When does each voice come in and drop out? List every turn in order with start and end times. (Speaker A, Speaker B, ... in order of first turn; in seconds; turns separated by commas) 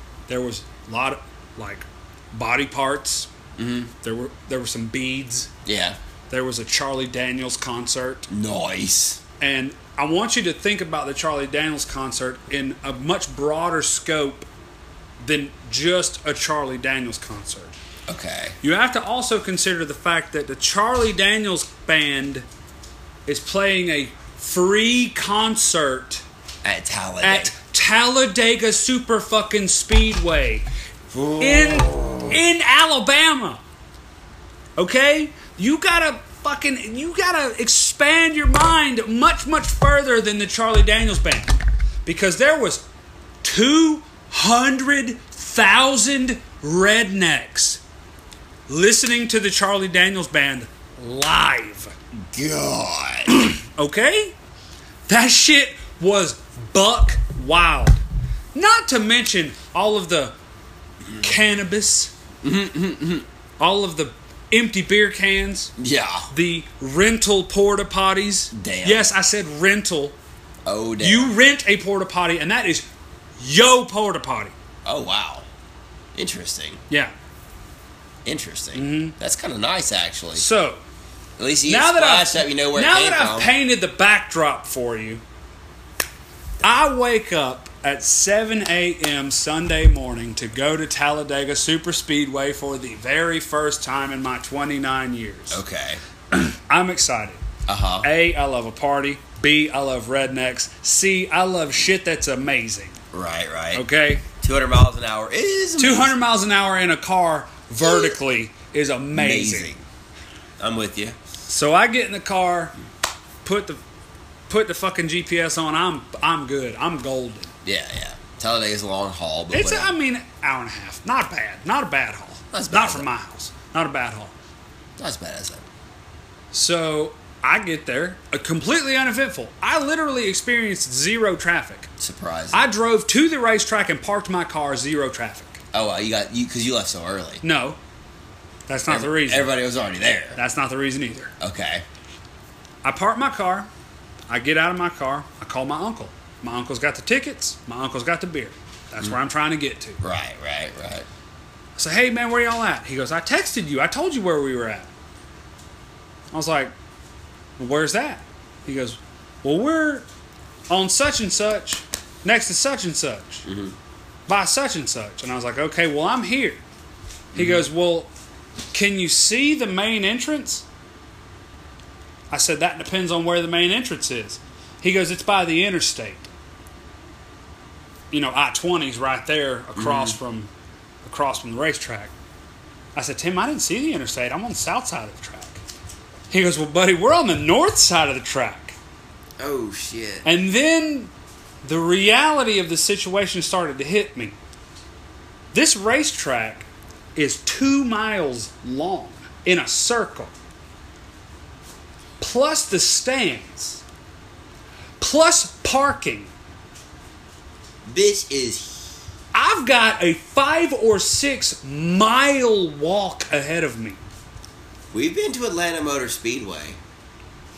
Speaker A: 0.3-3.3, Speaker B: 3.6-3.9, Speaker A: 4.0-5.5, Speaker B: 5.6-6.0, Speaker A: 6.3-8.3, Speaker B: 8.3-9.2, Speaker A: 9.4-14.5, Speaker A: 15.2-17.7, Speaker B: 18.1-18.6, Speaker A: 18.6-22.4, Speaker A: 23.2-26.2, Speaker B: 26.6-27.5, Speaker A: 27.2-30.6, Speaker B: 31.1-32.3, Speaker A: 31.4-33.6, Speaker A: 34.8-42.8, Speaker A: 43.4-47.8, Speaker A: 48.7-51.9, Speaker B: 52.1-53.3, Speaker A: 53.4-54.3, Speaker A: 55.1-58.0, Speaker A: 58.5-60.3, Speaker A: 61.2-62.1, Speaker B: 62.4-63.2, Speaker A: 63.6-65.7, Speaker B: 65.8-66.3, Speaker A: 66.3-70.2, Speaker B: 68.5-69.1, Speaker B: 70.7-71.3, Speaker A: 71.0-72.8, Speaker A: 73.4-74.5, Speaker B: 74.8-75.5, Speaker B: 76.1-76.8, Speaker B: 78.2-80.4, Speaker A: 78.7-79.1, Speaker A: 80.3-80.8, Speaker B: 81.4-83.5, Speaker A: 81.7-85.2, Speaker A: 86.6-95.6, Speaker B: 95.5-96.0, Speaker A: 96.3-97.4, Speaker B: 97.7-98.1, Speaker A: 98.0-103.0, Speaker B: 103.1-103.8, Speaker A: 103.7-104.2, Speaker B: 104.4-106.2, Speaker A: 105.8-109.8, Speaker B: 107.8-108.1, Speaker B: 109.1-109.8, Speaker B: 110.6-111.2, Speaker A: 111.5-112.7, Speaker A: 113.4-113.8, Speaker A: 114.5-117.5, Speaker B: 117.6-119.9, Speaker A: 119.5-124.3, Speaker B: 122.5-123.1, Speaker B: 125.0-125.6, Speaker A: 126.5-131.9, Speaker B: 132.0-132.7, Speaker A: 132.5-135.6, Speaker B: 135.7-137.4, Speaker A: 137.4-137.8, Speaker A: 138.7-139.5, Speaker B: 138.9-140.4, Speaker A: 140.3-141.3, Speaker B: 141.4-141.8, Speaker A: 142.8-143.7, Speaker A: 144.3-150.0, Speaker B: 150.0-151.1, Speaker A: 151.8-154.9, Speaker A: 156.3-156.7, Speaker A: 157.6-160.1, Speaker A: 160.7-163.4, Speaker B: 163.4-163.7, Speaker A: 164.3-166.6, Speaker B: 167.3-167.7, Speaker A: 167.3-168.1, Speaker A: 168.7-170.6, Speaker A: 172.3-176.3, Speaker A: 178.1-180.5, Speaker B: 179.8-180.2, Speaker A: 181.0-182.1, Speaker A: 182.9-185.6, Speaker A: 186.3-188.7, Speaker B: 189.4-190.3, Speaker A: 190.2-191.1, Speaker A: 191.6-194.4, Speaker A: 195.5-200.3, Speaker A: 202.2-203.8, Speaker A: 205.0-206.3, Speaker B: 207.8-208.9, Speaker A: 209.3-214.0, Speaker B: 214.9-216.8